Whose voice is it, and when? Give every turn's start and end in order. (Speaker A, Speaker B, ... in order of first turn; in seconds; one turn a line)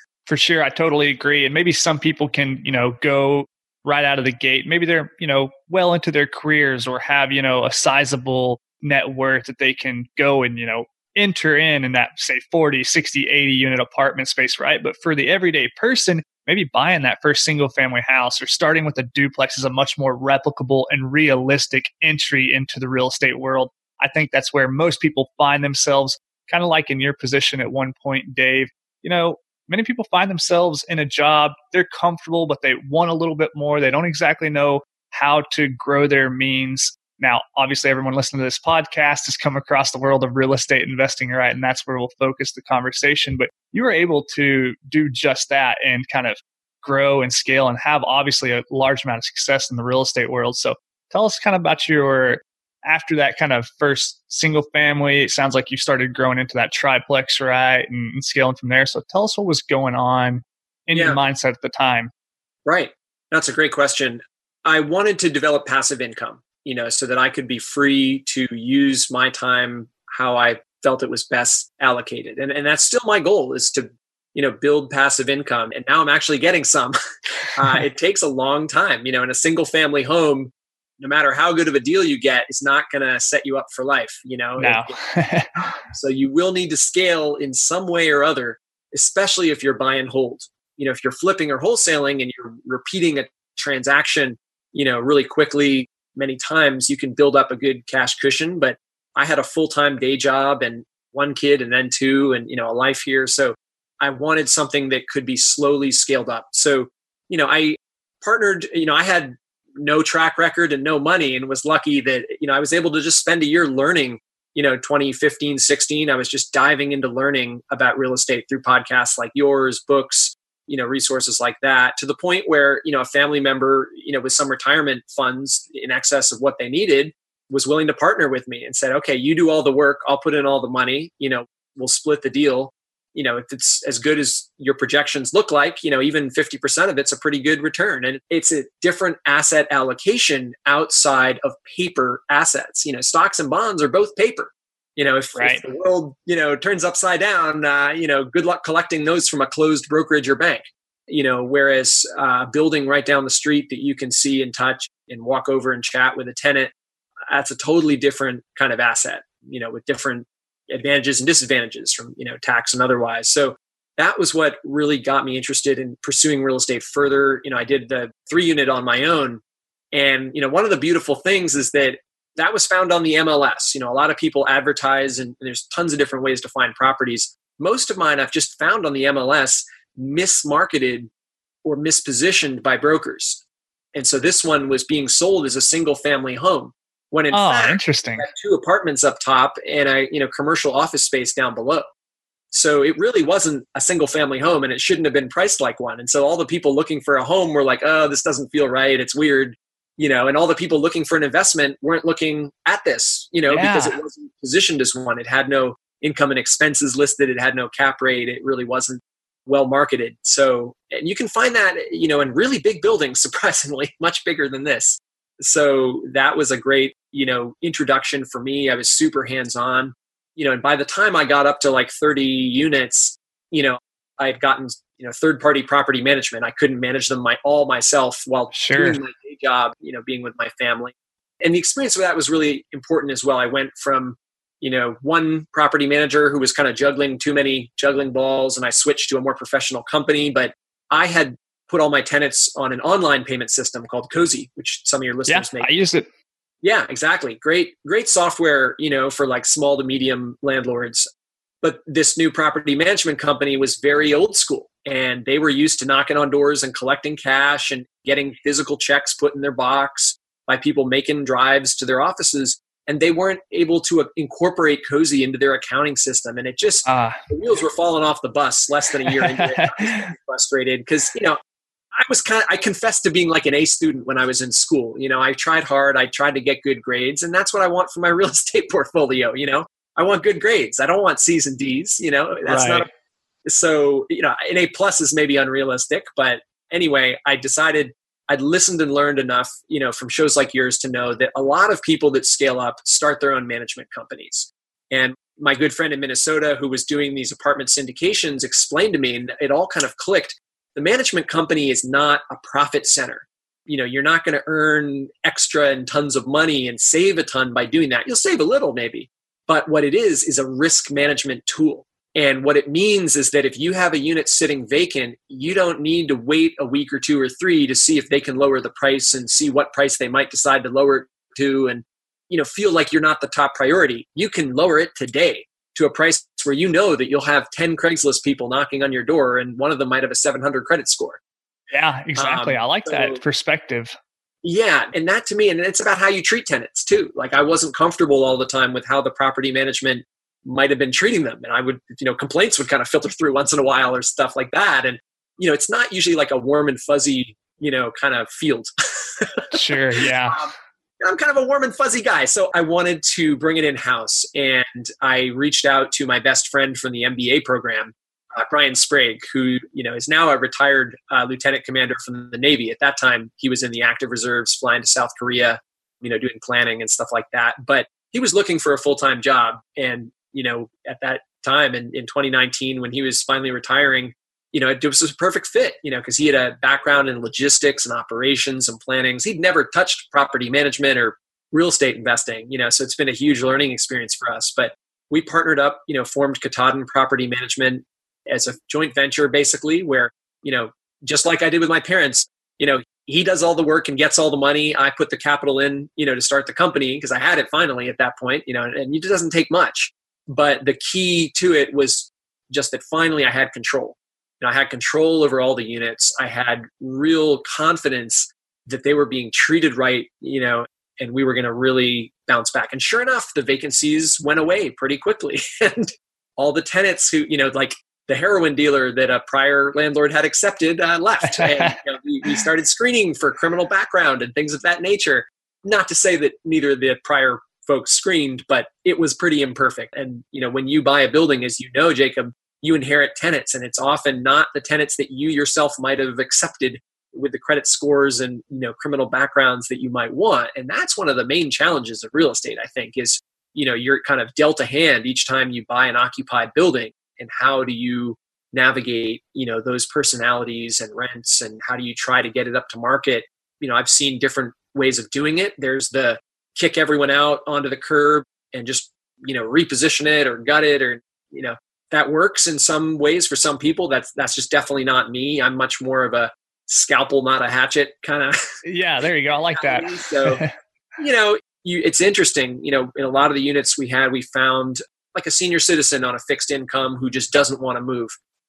Speaker A: 0.3-62.1
Speaker B: 62.7-77.0
Speaker B: 77.5-85.0
Speaker A: 84.6-85.8
Speaker B: 85.6-156.7
Speaker A: 145.4-145.6
Speaker B: 157.3-169.4
Speaker B: 169.9-181.1
Speaker B: 181.6-183.4
Speaker B: 183.9-191.9
Speaker A: 187.3-188.3
Speaker B: 192.5-245.7
Speaker A: 203.5-204.0
Speaker A: 228.5-229.0
Speaker A: 245.3-246.1
Speaker B: 246.6-251.1
Speaker B: 251.6-271.4
Speaker A: 266.9-267.2
Speaker A: 269.1-270.1
Speaker B: 272.0-282.9
Speaker A: 282.5-282.9
Speaker B: 283.5-331.2
Speaker A: 331.7-333.9
Speaker B: 332.2-333.2
Speaker B: 334.4-349.5
Speaker A: 349.5-350.4
Speaker B: 351.0-468.4
Speaker A: 421.2-421.8
Speaker A: 468.6-470.5
Speaker B: 469.6-470.4
Speaker B: 471.0-478.1